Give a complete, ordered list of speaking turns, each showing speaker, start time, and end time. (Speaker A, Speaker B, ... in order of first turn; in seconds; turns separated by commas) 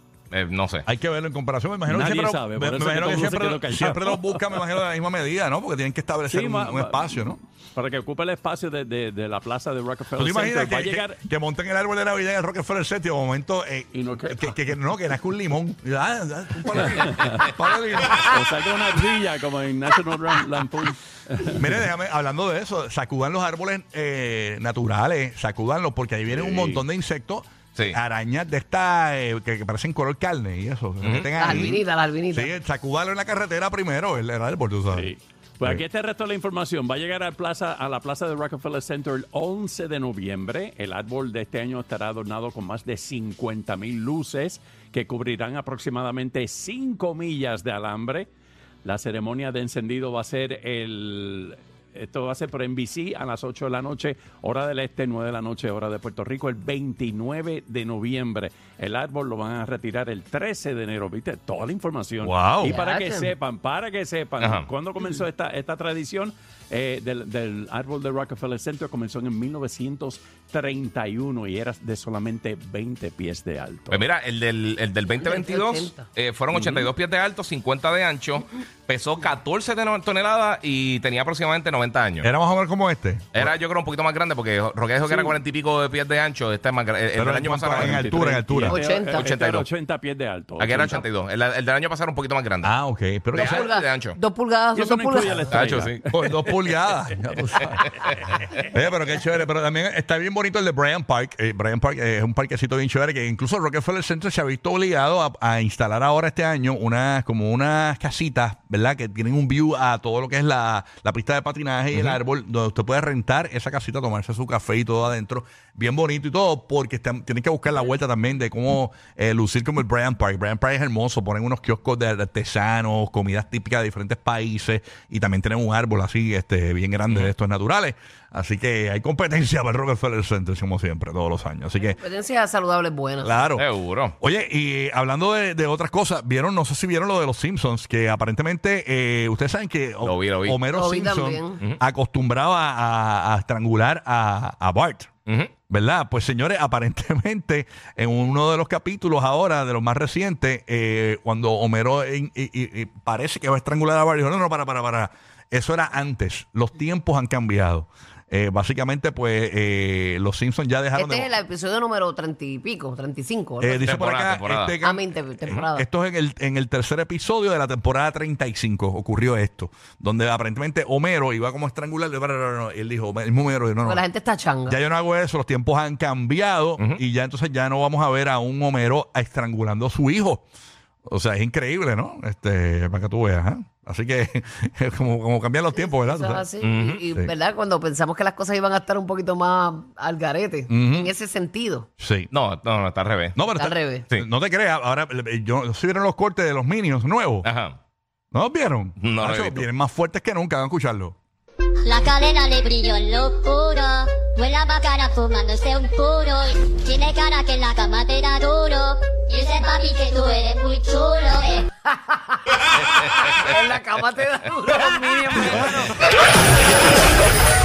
Speaker A: 0.3-0.9, Speaker B: 0.9-7.4, Speaker C: 1.9-4.6, Speaker C: 6.3-11.2, Speaker B: 10.2-18.4, Speaker C: 13.9-14.6, Speaker C: 16.7-17.5, Speaker C: 18.1-21.8, Speaker B: 21.6-35.1, Speaker C: 26.3-26.8, Speaker A: 31.0-31.7, Speaker D: 31.4-32.5, Speaker C: 34.9-48.3, Speaker C: 48.8-74.1, Speaker B: 62.2-62.8, Speaker D: 62.6-63.3, Speaker A: 64.4-64.7, Speaker A: 73.9-82.3, Speaker D: 75.1-76.0, Speaker C: 76.5-76.9, Speaker B: 82.2-83.5, Speaker A: 83.3-88.1, Speaker C: 85.0-85.4, Speaker B: 87.2-88.8, Speaker C: 87.8-91.0, Speaker D: 88.7-89.3, Speaker A: 89.1-89.7, Speaker A: 90.6-92.7, Speaker B: 92.6-93.7, Speaker D: 93.3-95.5, Speaker A: 93.3-94.2, Speaker C: 94.7-96.1, Speaker A: 95.5-96.0, Speaker B: 96.1-132.0, Speaker A: 97.7-98.6, Speaker A: 111.9-112.2, Speaker D: 131.8-133.4, Speaker B: 133.2-133.7, Speaker A: 133.6-134.2, Speaker B: 134.2-145.1, Speaker A: 140.0-140.6, Speaker D: 140.7-141.6, Speaker A: 145.3-145.5, Speaker B: 145.7-161.3, Speaker D: 161.0-164.0, Speaker B: 163.6-174.0, Speaker A: 163.9-164.8, Speaker D: 164.8-165.8, Speaker D: 173.8-174.8, Speaker B: 174.7-180.4, Speaker B: 181.1-186.5, Speaker D: 185.7-191.9, Speaker A: 186.6-187.0, Speaker B: 190.7-191.1, Speaker B: 192.0-192.3, Speaker A: 192.3-193.4, Speaker B: 193.3-197.5, Speaker D: 193.5-194.1, Speaker A: 197.4-197.8, Speaker B: 198.3-201.2, Speaker A: 199.0-199.7, Speaker E: 201.8-211.7, Speaker D: 211.9-215.9, Speaker A: 213.0-213.5, Speaker A: 214.7-215.4